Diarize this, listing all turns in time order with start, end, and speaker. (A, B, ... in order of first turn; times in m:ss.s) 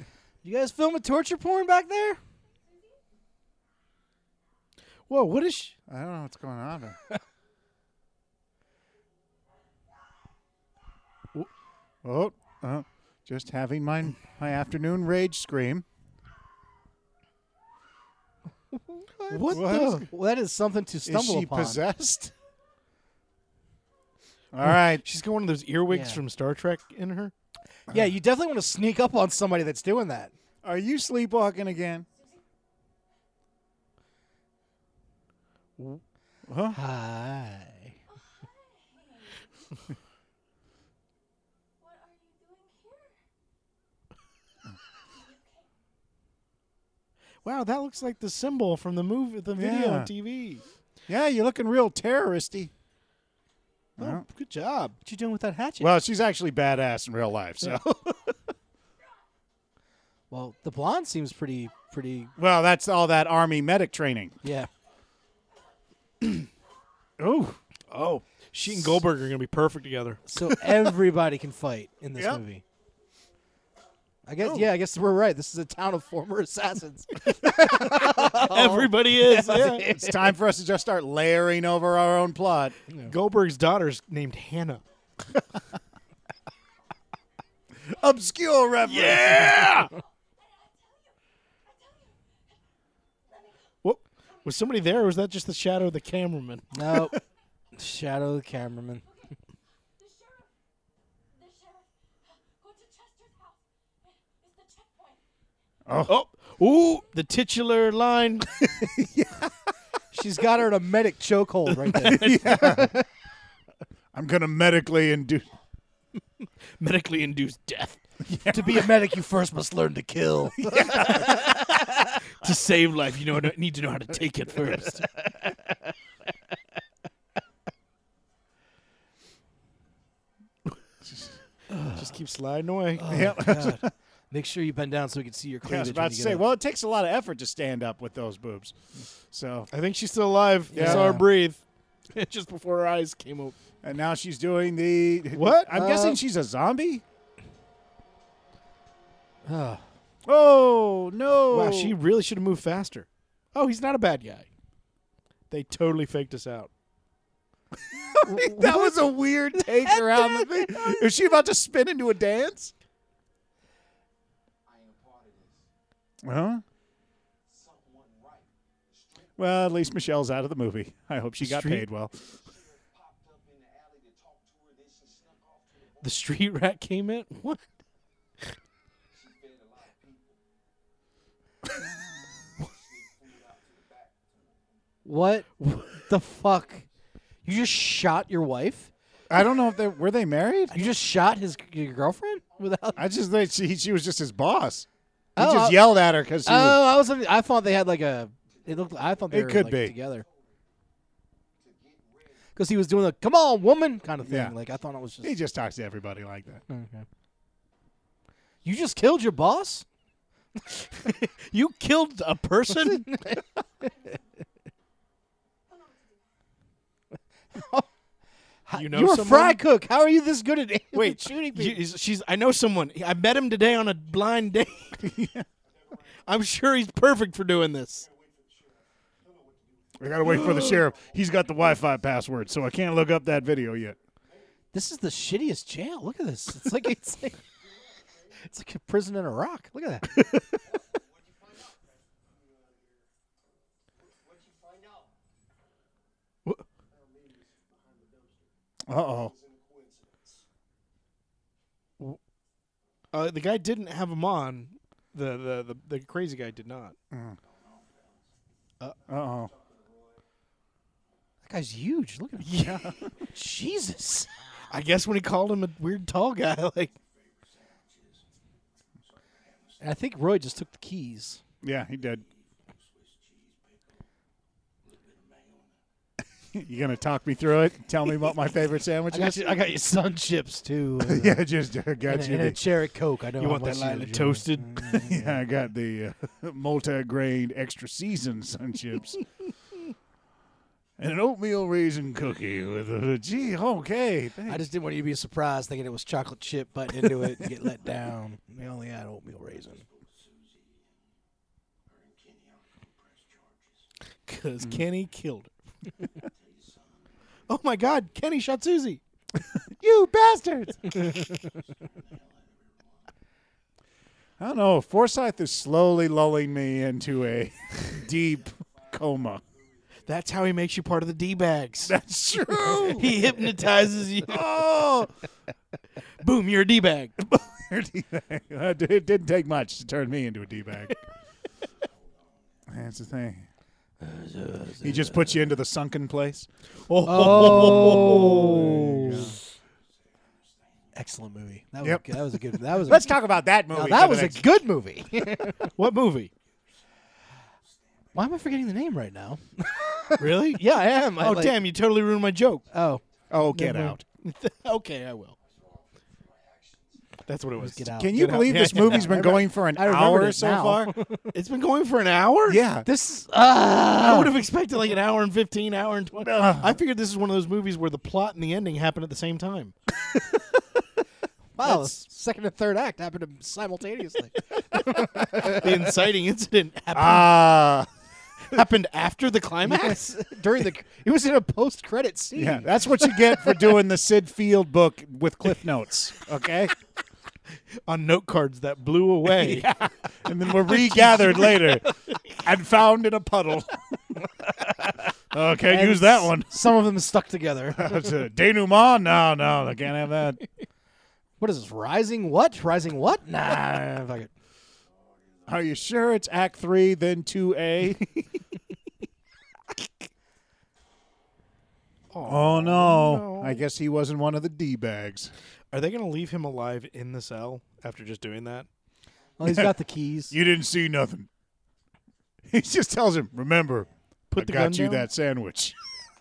0:00.4-0:02.2 A
0:02.6-0:03.0 B
0:05.1-0:05.7 C
0:05.9-0:07.0 D
0:12.0-0:15.8 D
0:18.7-0:21.8 A
0:19.3-0:20.1 C
0:19.5-0:20.0 D
0:21.0-0:22.3 D
0:24.5-0:25.0 D
0:24.6-0:27.3 C
0:25.9-0:26.2 A
0:27.9-0:30.3 A
0:30.6-0:32.0 D
0:32.1-0:32.4 B
0:36.5-0:36.8 D
0:36.7-0:37.9 A
0:38.1-0:39.5 B
0:41.8-0:43.2 B
0:45.1-0:45.7 B
0:47.4-0:50.6 C
0:49.6-0:50.1 D
0:51.1-0:52.7 D
0:54.0-0:54.2 D
0:54.0-0:55.0 C
0:55.0-0:55.9 A
0:55.8-0:58.3 D
1:00.3-1:02.3 A
1:02.4-1:04.4 D
1:04.4-1:04.7 A
1:07.2-1:07.6 D
1:07.9-1:10.9 C
1:10.3-1:12.6 A
1:12.2-1:12.4 D
1:14.2-1:20.3 A
1:17.4-1:19.9 C
1:19.9-1:22.7 D
1:23.1-1:24.8 C
1:27.9-1:29.7 D
1:28.8-1:29.9 C
1:29.9-1:32.3 B
1:33.3-1:33.6 B
1:33.8-1:37.2 C
1:36.7-1:37.2 A
1:37.7-1:39.0 A
1:39.1-1:39.3 B
1:40.0-1:40.5 B
1:41.3-1:45.2 B
1:45.9-1:46.2 D
1:46.0-1:48.5 C
1:48.8-1:49.5 D
1:50.1-1:53.0 A
1:51.6-1:52.5 C
1:52.0-1:52.9 D
1:54.1-1:55.5 D
1:56.8-1:58.0 C
1:58.2-1:58.9 D
1:58.5-2:01.6 A
2:00.6-2:01.3 D
2:00.9-2:01.7 C
2:02.3-2:05.1 C
2:11.7-2:12.0 A
2:11.9-2:13.1 C
2:13.0-2:16.4 A
2:13.1-2:13.9 D
2:15.6-2:18.8 D
2:19.3-2:19.7 D
2:19.7-2:23.6 C
2:20.7-2:21.2 D
2:20.7-2:21.2 A
2:23.8-2:27.0 D
2:25.3-2:25.7 C
2:25.7-2:26.2 A
2:29.4-2:29.8 A
2:30.2-2:31.9 D
2:31.5-2:34.5 C
2:35.5-2:36.7 C
2:38.0-2:42.7 D
2:38.2-2:41.0 A
2:44.6-2:45.6 E
2:46.2-2:46.6 D
2:47.5-2:49.3 E
2:49.4-2:52.2 D
2:51.4-2:51.8 C
2:52.3-2:56.1 E
2:56.0-2:57.7 C
2:59.1-3:00.4 E
3:02.6-3:04.4 E
3:05.0-3:06.8 A
3:07.4-3:08.9 A
3:09.3-3:10.9 D
3:10.7-3:13.0 A
3:12.9-3:14.8 D
3:15.4-3:15.9 A
3:15.4-3:16.8 D
3:16.4-3:20.2 A
3:18.6-3:18.9 E
3:19.3-3:20.0 D
3:21.6-3:22.5 E
3:22.6-3:25.3 A
3:24.2-3:24.6 D
3:25.2-3:26.6 D
3:26.7-3:27.0 A
3:28.6-3:29.8 A
3:30.8-3:31.0 A
3:30.9-3:33.0 C
3:32.7-3:33.4 A
3:35.7-3:36.2 B
3:37.5-3:37.8 A
3:38.6-3:41.8 A
3:38.7-3:39.6 C
3:40.9-3:45.1 C
3:45.0-3:45.4 D
3:46.2-3:48.1 C
3:48.1-3:50.0 E
3:50.0-3:54.0 D
3:50.2-3:50.8 C
3:54.7-3:57.4 A
3:58.0-3:58.3 E
3:58.4-4:00.3 A
4:00.7-4:03.1 E
4:04.0-4:05.1 E
4:06.9-4:08.5 E
4:08.9-4:09.3 D
4:09.3-4:10.4 E
4:13.1-4:17.0 C
4:17.1-4:17.4 D
4:19.1-4:19.5 D
4:19.5-4:20.2 E
4:21.4-4:22.7 A
4:22.4-4:22.8 C
4:22.6-4:23.1 D
4:23.3-4:24.4 A
4:24.7-4:26.9 C
4:29.8-4:31.4 A
4:31.6-4:32.2 D
4:36.5-4:39.5 D
4:39.1-4:41.4 A
4:41.0-4:42.6 D
4:42.0-4:45.4 A
4:43.3-4:45.1 C
4:45.0-4:49.2 D
4:51.0-4:54.6 D
4:54.5-4:59.8 A
5:04.3-5:05.5 C
5:07.5-5:09.0 C
5:09.7-5:11.0 D
5:14.4-5:19.4 D
5:20.0-5:22.0 C
5:21.8-5:23.3 D
5:22.8-5:24.6 C
5:24.2-5:25.1 D
5:26.2-5:27.1 C
5:27.3-5:31.0 D
5:32.7-5:33.5 D
5:34.0-5:35.3 A
5:34.8-5:36.5 D
5:36.9-5:38.7 C
5:37.0-5:39.4 A
5:37.4-5:39.4 D
5:40.9-5:43.2 A
5:41.8-5:44.5 D
5:43.7-5:45.7 A
5:45.7-5:46.3 C
5:48.1-5:51.6 A
5:50.2-5:52.7 C
5:52.7-5:53.0 A
5:53.3-5:54.0 D
5:53.5-5:55.3 C
5:55.6-5:57.0 E
5:57.2-5:59.2 C
5:57.6-6:01.3 A
5:57.9-6:00.9 D
6:01.3-6:02.6 C
6:02.5-6:02.9 D
6:02.8-6:04.3 A
6:03.9-6:09.7 C
6:06.2-6:06.8 D
6:11.6-6:15.9 A
6:11.6-6:11.9 C
6:14.9-6:17.4 C
6:16.9-6:17.9 D
6:18.5-6:20.0 C
6:19.6-6:23.6 A
6:22.3-6:26.7 D
6:27.8-6:29.7 C
6:29.3-6:31.9 D
6:30.5-6:32.2 C
6:32.4-6:33.8 D
6:35.3-6:36.7 D
6:35.6-6:38.1 A
6:37.7-6:40.4 D
6:41.4-6:44.3 A
6:45.5-6:48.1 D
6:52.1-6:53.6 C
6:52.2-6:55.3 D
6:55.7-6:58.7 C
6:59.4-7:00.3 A
6:59.4-6:59.7 D
7:00.3-7:01.3 D
7:02.5-7:05.7 D
7:04.3-7:05.1 C